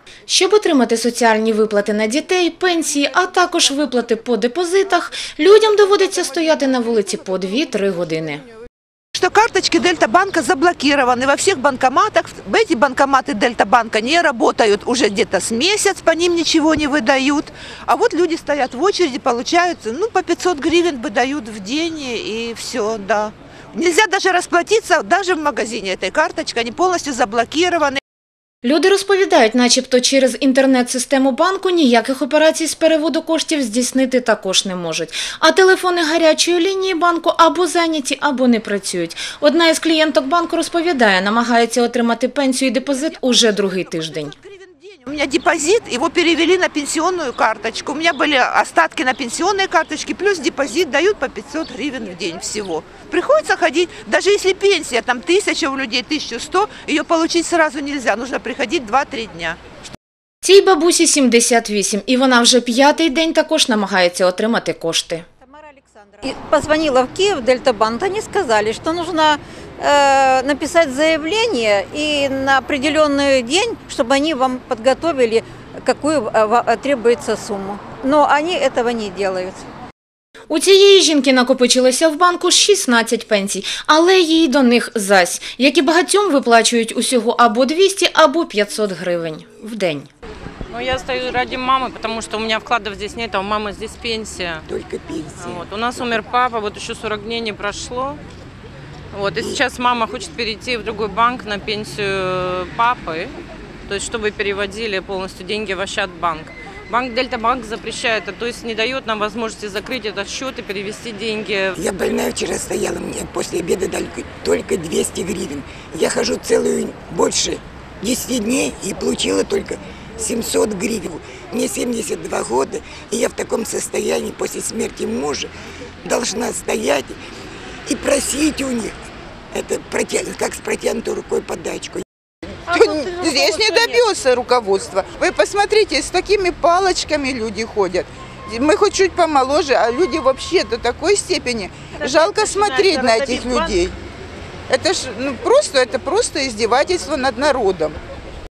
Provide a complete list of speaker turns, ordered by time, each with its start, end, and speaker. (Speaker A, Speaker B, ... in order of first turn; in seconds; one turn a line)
Speaker A: 0.3-8.4
Speaker B: 9.1-28.0
Speaker A: 28.6-44.3
Speaker B: 43.2-59.6
Speaker A: 60.4-65.2
Speaker C: 65.4-79.7
Speaker A: 80.5-90.1
Speaker D: 90.7-94.6
Speaker E: 94.7-96.0
Speaker D: 95.4-98.2
Speaker D: 99.1-103.3
Speaker E: 99.3-99.6
Speaker D: 103.9-111.7
Speaker E: 111.7-125.5
Speaker E: 126.0-127.2
Speaker E: 127.8-128.9
Speaker E: 129.5-132.0
Speaker F: 132.7-143.9
Speaker D: 132.7-134.0
Speaker D: 142.1-143.8
Speaker F: 144.7-148.0